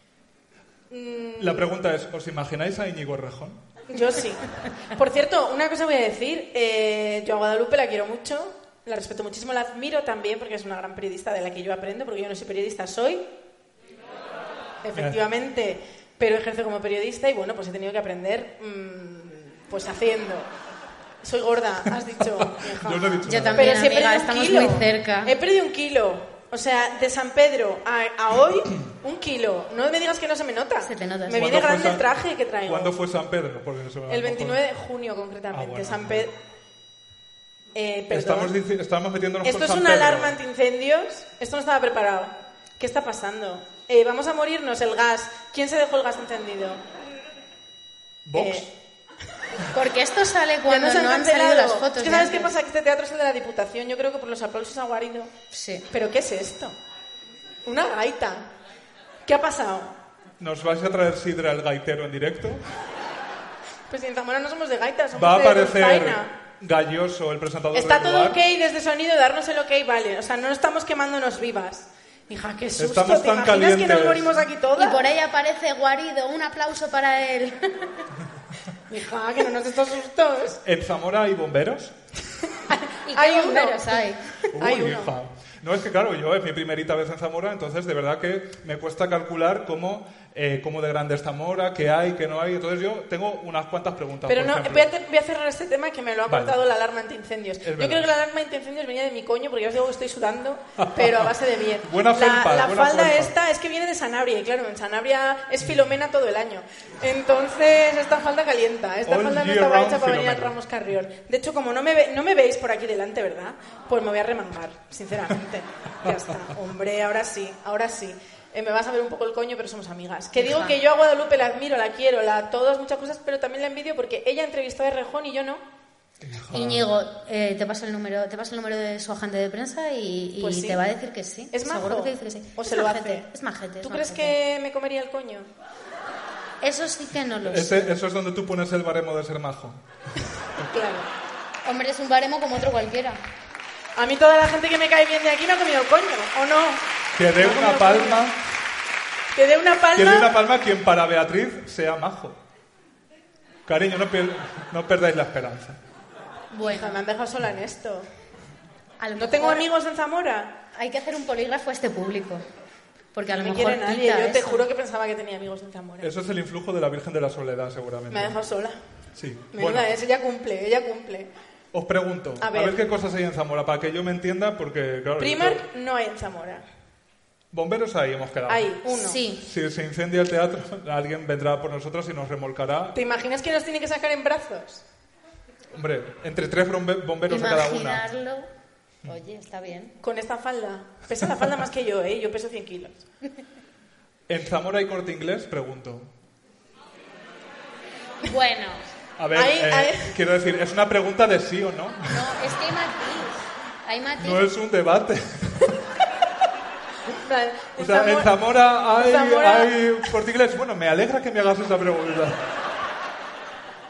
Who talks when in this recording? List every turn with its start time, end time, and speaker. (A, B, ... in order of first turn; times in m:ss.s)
0:00.9-0:01.7 A
0:01.4-0:03.6 B
0:03.9-0:13.2 A
0:14.8-0:20.5 A
0:21.2-0:33.0 A
0:22.3-0:23.8 B
0:23.3-0:25.3 C
0:30.8-0:31.6 C
0:31.4-0:32.1 B
0:32.7-0:34.6 B
0:34.1-0:36.3 A
0:35.5-0:36.3 B
0:37.8-0:38.6 A
0:38.1-0:40.4 B
0:39.4-0:46.8 A
0:48.3-0:48.7 B
0:48.4-0:48.7 A
0:49.7-0:52.6 C
0:50.7-0:55.3 A
0:55.5-0:55.9 C
0:55.9-0:56.8 A
0:57.7-0:58.5 A
0:59.3-1:00.0 A
1:00.4-1:02.6 B
1:03.9-1:06.3 A
1:05.1-1:08.4 B
1:07.7-1:15.1 A
1:12.8-1:14.5 B
1:14.8-1:18.0 C
1:18.9-1:20.6 A
1:20.6-1:22.0 B
1:22.7-1:25.1 A
1:23.1-1:24.3 C
1:24.5-1:34.9 B
1:34.3-2:05.6 A
1:36.3-1:36.6 B
1:37.6-1:38.1 B
1:40.8-1:43.4 B
1:45.6-1:45.9 B
1:49.1-1:50.6 B
2:00.4-2:00.8 C
2:06.2-2:06.9 B
2:06.5-2:14.4 C
2:10.4-2:10.8 A
2:11.5-2:13.3 A
2:13.8-2:15.5 A
2:16.6-2:17.9 C
2:17.4-2:19.8 B
2:20.6-2:21.1 A
2:21.6-2:23.2 C
2:24.0-2:26.8 A
2:27.2-2:28.4 B
2:27.4-2:28.2 A
2:29.3-2:30.3 A
2:30.0-2:32.4 B
2:33.7-2:35.8 B
2:36.5-2:37.0 C
2:36.6-2:38.1 A
2:39.0-2:39.7 C
2:39.2-2:40.6 A
2:40.7-2:42.4 C
2:43.1-2:44.6 C
2:43.4-2:46.1 A
2:46.0-2:48.4 B
2:48.1-2:48.8 A
2:49.2-2:49.9 B
2:49.5-2:51.3 A
2:51.7-2:55.6 B
2:52.4-2:52.8 A
2:55.2-2:56.6 A
2:57.5-2:58.7 B
2:58.5-2:59.2 A
2:58.9-2:59.4 C
2:59.4-3:03.0 B
3:03.0-3:04.8 A
3:05.7-3:08.0 B
3:07.3-3:08.5 C
3:09.0-3:10.0 C
3:10.0-3:13.0 A
3:14.3-3:16.1 B
3:18.2-3:18.8 C
3:19.2-3:22.4 B
3:19.4-3:20.1 A
3:22.1-3:24.4 C
3:24.2-3:25.8 B
3:27.2-3:29.8 A
3:27.8-3:32.4 B